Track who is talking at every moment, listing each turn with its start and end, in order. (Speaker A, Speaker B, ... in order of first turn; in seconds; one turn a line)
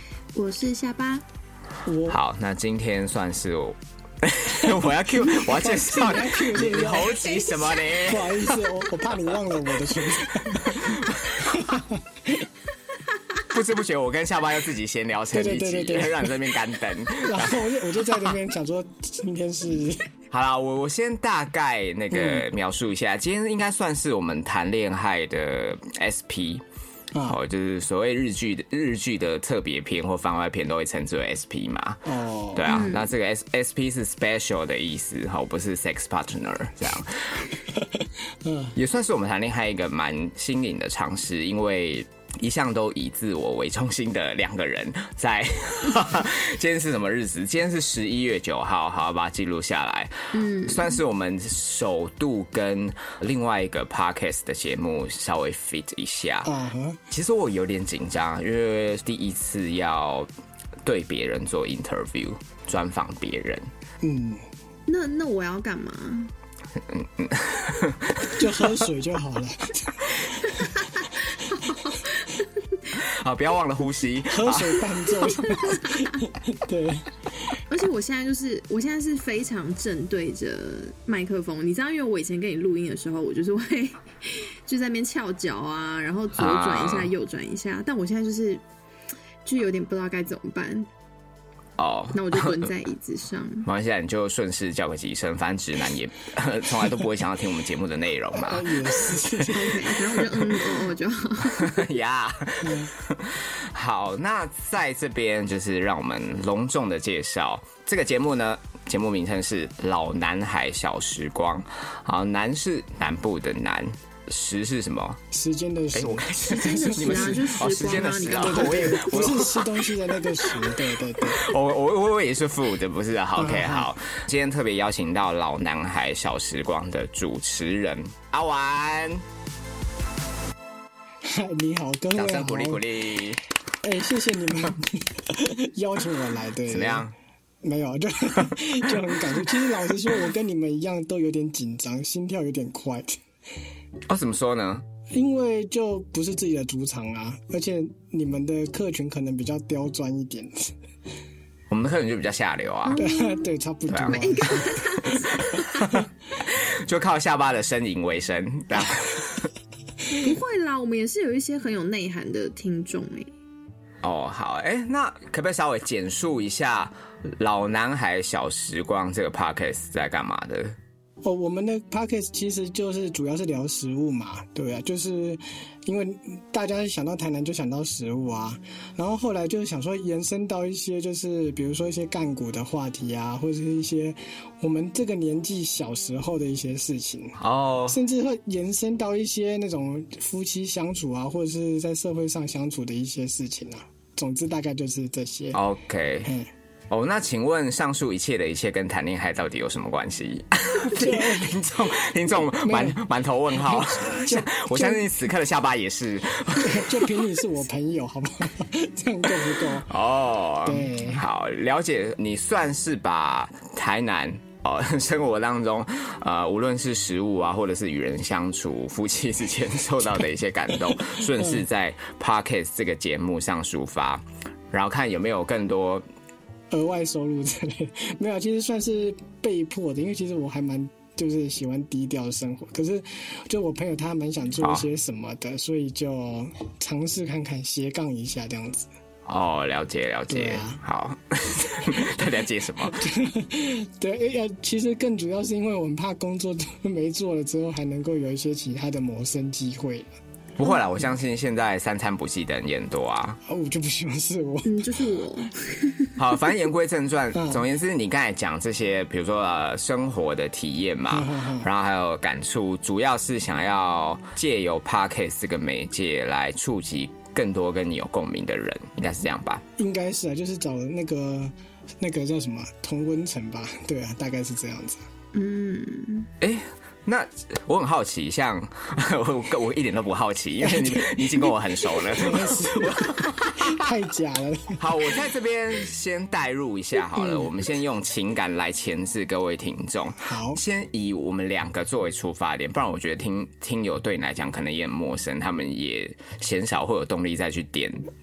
Speaker A: 0.3-1.2
Speaker B: 1.8-2.2
Speaker C: 2.1-8.7
Speaker B: 5.2-7.4
Speaker A: 7.3-7.8
Speaker B: 7.9-12.5
Speaker C: 10.4-11.6
Speaker C: 13.4-18.3
Speaker B: 15.3-16.4
Speaker B: 17.2-20.1
Speaker C: 20.3-26.6
Speaker B: 22.1-22.4
Speaker C: 27.2-37.5
Speaker B: 32.0-32.8
Speaker A: 32.6-33.1
Speaker B: 37.8-38.7
Speaker C: 38.7-56.5
Speaker A: 50.3-51.0
Speaker B: 56.4-57.0
Speaker C: 57.1-60.3
Speaker C: 60.8-63.7
Speaker B: 64.0-64.5
Speaker A: 64.9-66.3
Speaker C: 66.9-68.6
Speaker B: 68.2-70.7
Speaker A: 70.4-72.9
Speaker C: 72.9-74.9
Speaker B: 74.3-77.5
Speaker A: 75.3-76.2
Speaker A: 77.7-88.6
Speaker C: 86.3-87.1
Speaker A: 89.4-90.9
Speaker C: 91.8-92.7
Speaker A: 92.1-93.7
Speaker C: 93.6-99.6
Speaker B: 98.3-99.9
Speaker A: 99.5-101.8
Speaker C: 100.2-100.7
Speaker C: 101.4-115.2
Speaker B: 102.6-102.9
Speaker B: 115.3-117.5
Speaker C: 115.9-129.2
Speaker A: 116.4-119.3
Speaker B: 118.3-121.5
Speaker B: 123.4-123.9
Speaker B: 131.2-132.8
Speaker C: 132.1-133.4
Speaker B: 133.8-137.1
Speaker C: 136.7-137.1
Speaker B: 137.6-143.2
Speaker C: 144.1-144.8
Speaker B: 145.1-150.7
Speaker C: 151.7-153.0
Speaker A: 152.8-153.4
Speaker B: 153.0-155.0
Speaker C: 153.9-154.6
Speaker A: 154.0-156.0
Speaker C: 156.4-159.5
Speaker A: 160.1-163.3
Speaker C: 164.0-170.7
Speaker B: 171.2-195.6
Speaker C: 187.4-188.0
Speaker C: 195.5-196.3
Speaker B: 196.2-196.5
Speaker C: 196.9-207.1
Speaker B: 200.9-201.6
Speaker B: 202.5-203.0
Speaker B: 203.5-205.1
Speaker B: 206.5-209.9
Speaker C: 209.8-226.0
Speaker B: 210.6-211.2
Speaker B: 221.3-221.6
Speaker B: 226.7-238.9
Speaker C: 239.2-243.1
Speaker B: 240.3-240.8
Speaker B: 242.9-250.1
Speaker C: 250.6-253.4
Speaker B: 253.4-255.0
Speaker A: 254.6-256.2
Speaker C: 256.2-269.6
Speaker B: 257.3-257.6
Speaker B: 261.1-261.7
Speaker B: 269.8-275.0
Speaker A: 275.3-276.3
Speaker C: 276.4-283.9
Speaker B: 280.6-285.1
Speaker C: 284.8-298.0
Speaker B: 287.1-287.5
Speaker B: 290.2-290.6